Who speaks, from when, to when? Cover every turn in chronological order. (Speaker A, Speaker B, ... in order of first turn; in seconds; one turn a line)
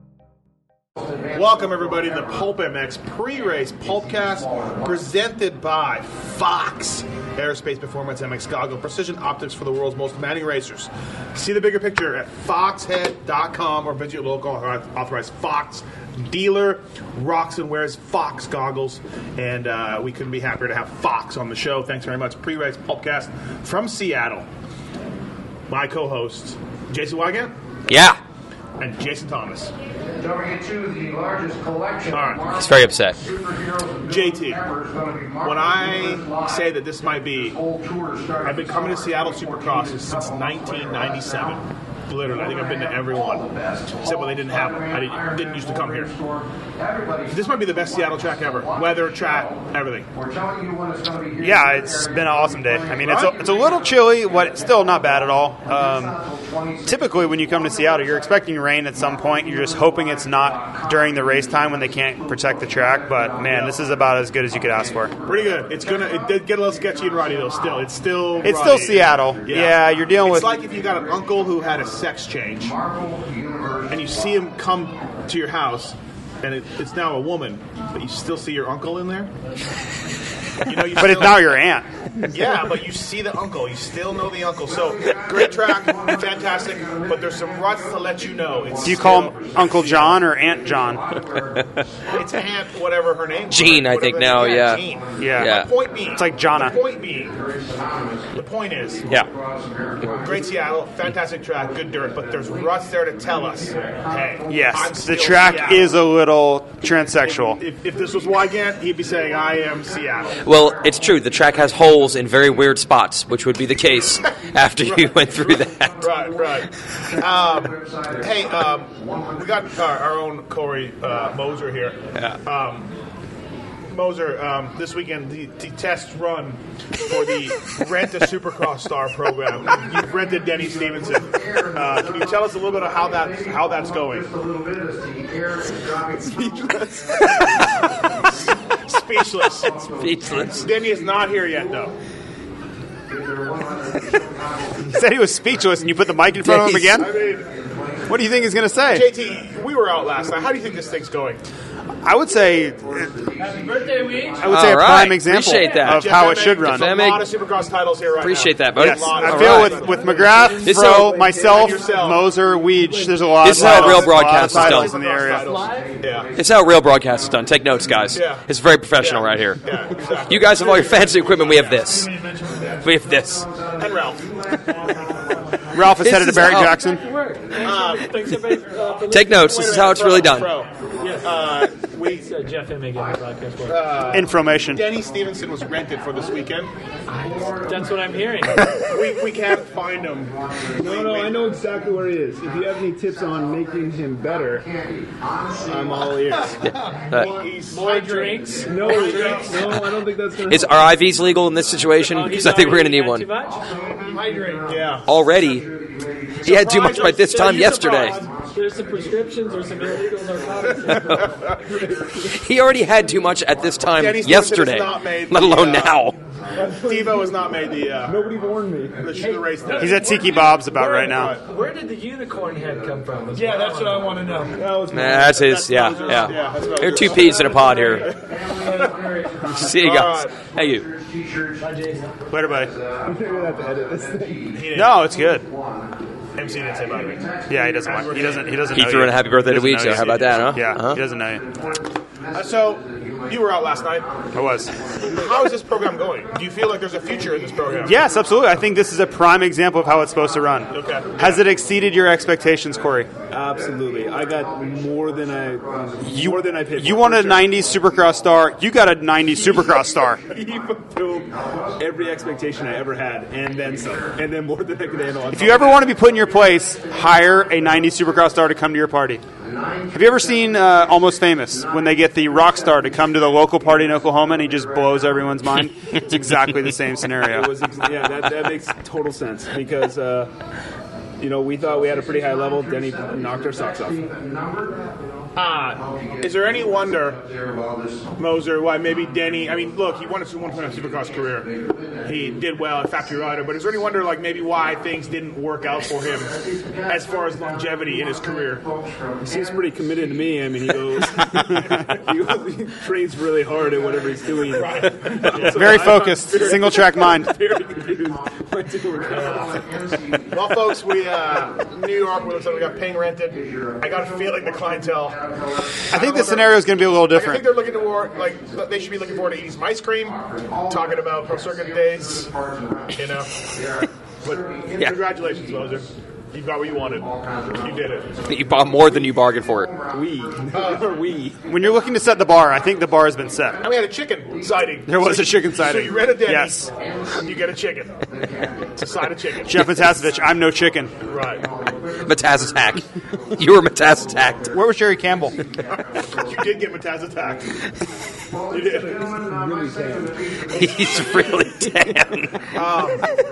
Speaker A: 1.3-24.4
Speaker A: 25.7-27.5
Speaker B: 27.9-28.2
Speaker A: 28.8-29.7
Speaker A: 32.1-32.5
Speaker B: 32.6-33.2
Speaker A: 34.0-34.7
Speaker A: 35.4-37.6
Speaker A: 38.4-43.5
Speaker A: 44.0-46.2
Speaker A: 47.3-50.1
Speaker C: 51.4-56.2
Speaker A: 53.0-53.4
Speaker C: 56.8-65.1
Speaker A: 63.4-63.8
Speaker A: 65.2-72.8
Speaker C: 68.4-70.6
Speaker A: 73.9-79.3
Speaker A: 80.6-81.6
Speaker C: 80.9-81.9
Speaker A: 82.3-90.2
Speaker C: 88.8-91.0
Speaker A: 92.1-97.4
Speaker B: 93.5-94.8
Speaker C: 95.2-95.6
Speaker B: 95.4-95.7
Speaker C: 96.1-96.8
Speaker A: 98.3-99.0
Speaker A: 100.0-105.9
Speaker C: 104.5-107.6
Speaker A: 107.2-110.4
Speaker B: 110.4-116.0
Speaker A: 114.8-115.1
Speaker A: 116.0-122.9
Speaker A: 123.9-134.3
Speaker D: 136.2-137.3
Speaker A: 138.9-139.7
Speaker B: 140.0-140.7
Speaker A: 140.6-141.9
Speaker C: 144.8-147.1
Speaker B: 146.5-146.9
Speaker A: 146.8-147.5
Speaker C: 148.1-149.1
Speaker A: 148.9-151.4
Speaker C: 152.0-153.1
Speaker E: 153.4-154.6
Speaker C: 154.4-156.9
Speaker B: 154.4-157.2
Speaker E: 155.4-156.0
Speaker A: 155.8-160.3
Speaker B: 158.2-159.8
Speaker C: 158.8-165.5
Speaker E: 159.9-160.7
Speaker D: 159.9-161.9
Speaker B: 160.6-161.2
Speaker A: 161.3-162.3
Speaker A: 163.4-166.3
Speaker B: 163.4-164.9
Speaker E: 164.7-165.9
Speaker B: 166.4-169.6
Speaker A: 168.1-168.4
Speaker A: 169.0-172.8
Speaker B: 170.3-172.1
Speaker B: 172.8-173.5
Speaker A: 173.8-174.2
Speaker C: 175.7-177.0
Speaker B: 176.0-176.8
Speaker E: 176.5-179.5
Speaker A: 177.5-178.2
Speaker B: 179.1-180.5
Speaker A: 179.3-182.3
Speaker E: 181.0-181.4
Speaker E: 182.1-184.1
Speaker A: 183.7-186.7
Speaker C: 184.1-184.9
Speaker E: 187.1-188.8
Speaker A: 188.7-191.4
Speaker D: 190.8-194.7
Speaker D: 195.6-196.7
Speaker A: 196.1-199.7
Speaker B: 196.6-197.3
Speaker E: 197.2-199.7
Speaker D: 198.7-201.0
Speaker B: 200.5-203.3
Speaker E: 202.0-204.7
Speaker A: 204.1-205.1
Speaker B: 205.1-205.7
Speaker B: 206.4-208.2
Speaker A: 206.4-208.3
Speaker E: 207.3-211.4
Speaker B: 210.9-211.3
Speaker D: 211.6-212.3
Speaker B: 212.3-216.2
Speaker A: 214.0-216.0
Speaker D: 216.6-217.3
Speaker A: 216.8-218.2
Speaker D: 218.1-219.2
Speaker A: 219.0-221.4
Speaker E: 219.2-224.6
Speaker C: 219.8-221.4
Speaker A: 223.3-224.1
Speaker D: 224.5-225.6
Speaker B: 224.9-228.1
Speaker A: 225.2-228.1
Speaker E: 227.1-229.7
Speaker A: 228.6-228.9
Speaker B: 229.4-230.9
Speaker A: 229.5-230.3
Speaker E: 231.6-232.1
Speaker C: 232.3-232.7
Speaker D: 233.0-234.6
Speaker A: 234.5-235.0
Speaker C: 234.7-235.5
Speaker A: 236.3-238.6
Speaker C: 237.5-241.5
Speaker B: 238.7-241.0
Speaker A: 242.3-244.1
Speaker C: 244.3-244.7
Speaker A: 245.1-248.0
Speaker C: 247.8-253.1
Speaker A: 250.7-251.4
Speaker D: 253.3-257.5
Speaker C: 256.0-260.2
Speaker D: 260.3-265.8
Speaker C: 265.3-269.2
Speaker C: 269.9-277.7
Speaker D: 277.2-280.3
Speaker D: 281.2-284.1
Speaker A: 285.4-287.2
Speaker A: 288.2-291.5
Speaker A: 292.0-296.3
Speaker A: 296.9-298.6
Speaker D: 299.2-309.6
Speaker A: 304.5-306.1
Speaker C: 305.4-307.3
Speaker A: 309.1-309.5
Speaker A: 310.3-315.2
Speaker A: 315.9-322.3
Speaker C: 315.9-317.4
Speaker A: 322.9-323.5
Speaker A: 324.2-328.1
Speaker B: 328.3-329.7
Speaker D: 329.9-331.4
Speaker A: 330.5-331.0
Speaker C: 331.4-333.6
Speaker A: 333.6-338.1
Speaker C: 334.9-336.7
Speaker A: 338.8-339.7
Speaker C: 339.4-340.9
Speaker A: 341.0-341.5
Speaker B: 342.0-344.5
Speaker C: 344.5-345.4
Speaker A: 346.1-347.5
Speaker A: 348.5-349.1
Speaker D: 348.5-350.2
Speaker B: 350.5-352.5
Speaker A: 352.5-353.0